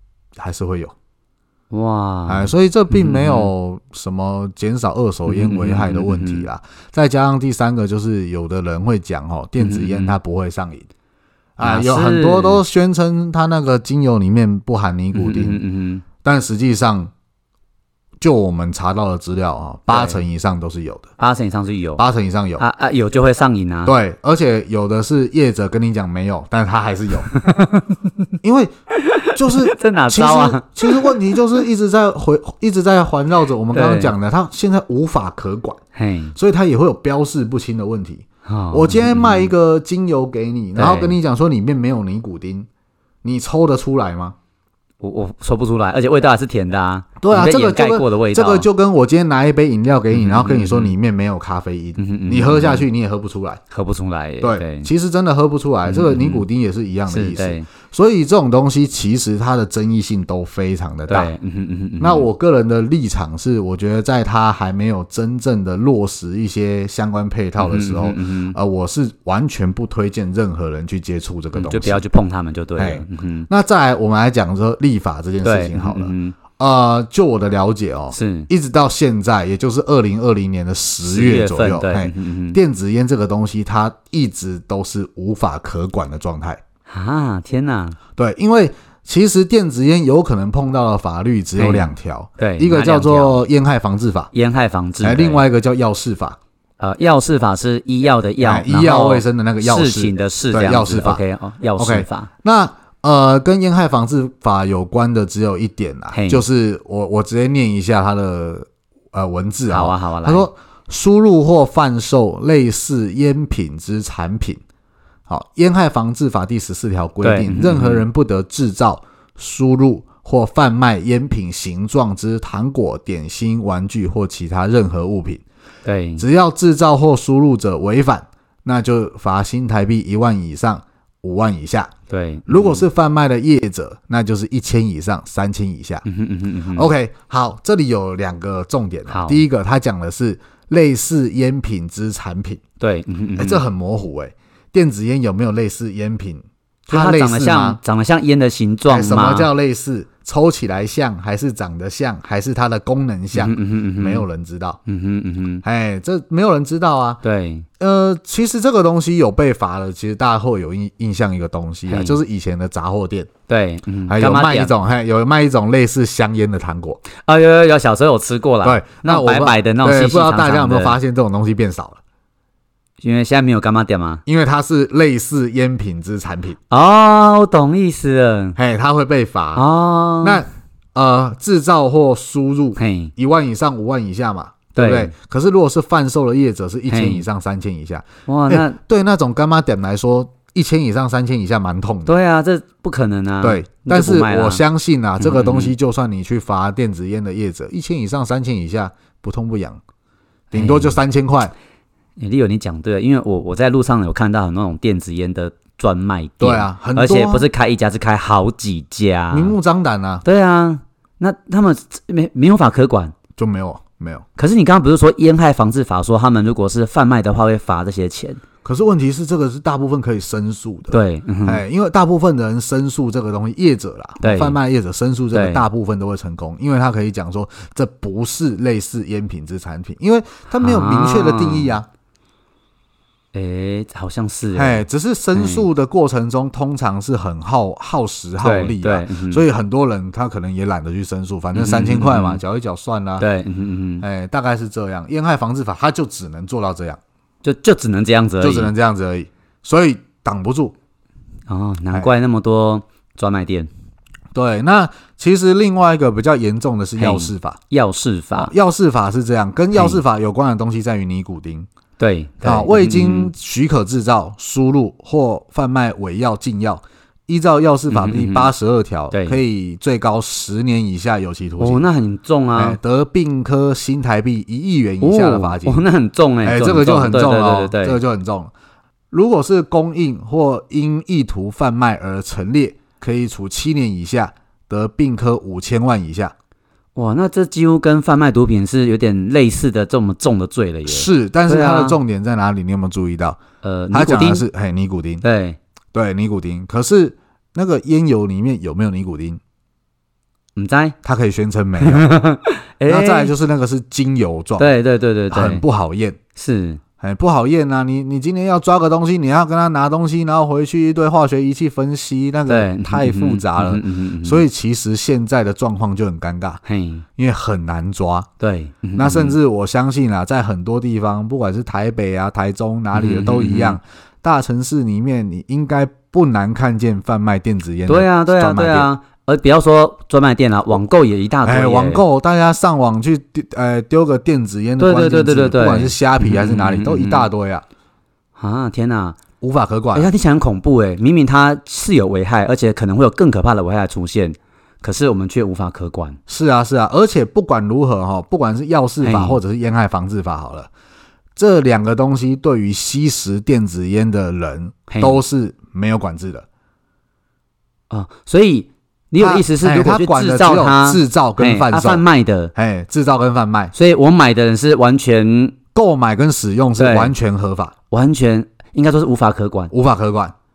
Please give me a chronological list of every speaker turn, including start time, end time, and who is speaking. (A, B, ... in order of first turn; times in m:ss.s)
0:00.4-0:00.9 A
0:01.7-0:03.5 B
0:02.3-0:10.9 A
0:05.3-0:06.5 B
0:09.6-0:10.2 B
0:11.6-0:15.6 A
0:11.6-0:12.6 B
0:15.1-0:16.0 B
0:16.2-0:17.1 A
0:18.2-0:21.1 A
0:19.9-0:20.2 B
0:21.2-0:22.0 B
0:22.0-0:22.6 A
0:22.6-0:23.9 B
0:23.8-0:27.7 A
0:27.3-0:27.8 B
0:28.4-0:28.7 A
0:29.0-0:31.1 B
0:29.3-0:35.8 A
0:33.7-0:34.1 B
0:35.9-0:36.3 B
0:36.3-0:42.7 A
0:38.4-0:39.5 B
0:40.8-0:41.2 B
0:43.2-0:44.3 A
0:45.0-0:48.7 B
0:47.2-0:53.6 A
0:50.1-0:50.9 B
0:52.0-0:52.9 B
0:53.7-0:54.9 B
0:54.4-1:01.3 A
0:55.8-0:56.4 B
0:57.1-0:57.7 B
1:01.1-1:02.3 B
1:02.0-1:12.0 A
1:07.6-1:08.6 B
1:11.5-1:13.5 B
1:12.8-1:26.6 A
1:15.4-1:16.4 B
1:18.1-1:18.5 B
1:21.0-1:22.6 B
1:26.9-1:28.0 B
1:28.2-1:34.3 A
1:31.6-1:33.4 B
1:34.3-1:35.4 B
1:35.0-1:36.4 A
1:36.8-1:42.3 B
1:38.4-1:41.2 A
1:41.8-1:54.6 A
1:46.1-1:46.4 B
1:49.7-1:50.5 B
1:55.3-2:05.4 A
1:57.2-1:58.0 B
2:05.8-2:06.2 B
2:06.2-2:11.9 A
2:12.1-2:12.8 B
2:12.5-2:16.0 A
2:16.0-2:16.9 B
2:16.7-2:22.6 A
2:19.1-2:19.4 B
2:22.8-2:23.6 B
2:23.4-2:27.8 A
2:26.9-2:29.5 B
2:28.9-2:34.8 A
2:33.3-2:34.2 B
2:34.9-2:35.6 B
2:35.6-2:37.2 A
2:37.2-2:37.6 B
2:37.8-2:43.3 A
2:41.9-2:42.2 B
2:43.5-2:44.7 B
2:44.1-2:47.0 A
2:47.2-2:51.0 B
2:48.6-2:52.0 A
2:53.0-2:54.2 B
2:54.2-2:56.6 A
2:56.7-2:58.6 B
2:58.6-2:59.6 A
2:59.5-3:00.4 B
3:00.2-3:12.1 A
3:02.8-3:03.1 B
3:04.7-3:05.1 B
3:06.9-3:07.2 B
3:08.3-3:08.8 B
3:12.0-3:14.6 B
3:13.4-3:19.8 A
3:15.2-3:15.7 B
3:20.5-3:21.0 B
3:20.5-3:21.5 A
3:22.2-3:29.5 B
3:26.4-3:27.4 A
3:29.3-3:30.2 A
3:30.2-3:33.1 B
3:33.4-3:34.2 A
3:34.4-3:38.4 B
3:38.6-3:51.9 A
3:40.9-3:41.6 B
3:44.2-3:44.6 B
3:45.3-3:45.6 B
3:50.5-3:51.8 B
3:53.3-3:54.8 B
3:54.5-4:03.2 A
3:55.3-3:55.6 B
3:58.4-3:59.4 B
4:01.5-4:02.4 B
4:03.2-4:04.0 B
4:04.0-4:07.0 A
4:07.4-4:08.7 B
4:08.4-4:10.7 A
4:11.5-4:13.7 B
4:14.3-4:17.6 A
4:17.0-4:18.5 B
4:18.4-4:21.7 A
4:19.7-4:20.0 B
4:22.0-4:23.3 B
4:22.4-4:31.8 A
4:27.9-4:28.5 B
4:29.1-4:29.4 B
4:31.6-4:32.8 B
4:32.5-4:35.8 A
4:35.0-4:38.0 B
4:36.4-4:38.5 A
4:39.1-4:46.3 A
4:46.9-4:52.0 B
4:50.9-4:53.4 A
4:53.6-4:54.4 B
4:53.9-4:55.2 A
4:55.2-4:55.6 B
4:55.9-4:59.4 A
5:00.6-5:01.0 B
5:01.0-5:02.1 A
5:01.8-5:03.3 B
5:02.8-5:04.7 A
5:04.6-5:05.6 B
5:05.3-5:06.2 A
5:06.4-5:06.8 B
5:07.0-5:16.6 A
5:12.5-5:14.4 B
5:16.6-5:17.0 B
5:17.2-5:18.3 A
5:18.4-5:19.4 B
5:18.9-5:28.9 A
5:22.9-5:23.8 B
5:27.9-5:32.0 B
5:31.4-5:37.6 A
5:34.8-5:37.3 B
5:38.4-5:39.2 B
5:39.4-5:40.1 A
5:39.9-5:46.2 B
5:46.3-5:50.7 A
5:49.0-5:49.4 B
5:51.4-5:56.4 A
5:54.9-5:55.2 B
5:57.9-6:02.5 B
5:59.2-6:02.0 A
6:02.5-6:03.7 A
6:03.7-6:05.6 B
6:05.7-6:07.7 A
6:06.8-6:07.1 B
6:07.9-6:09.7 B
6:09.7-6:10.3 A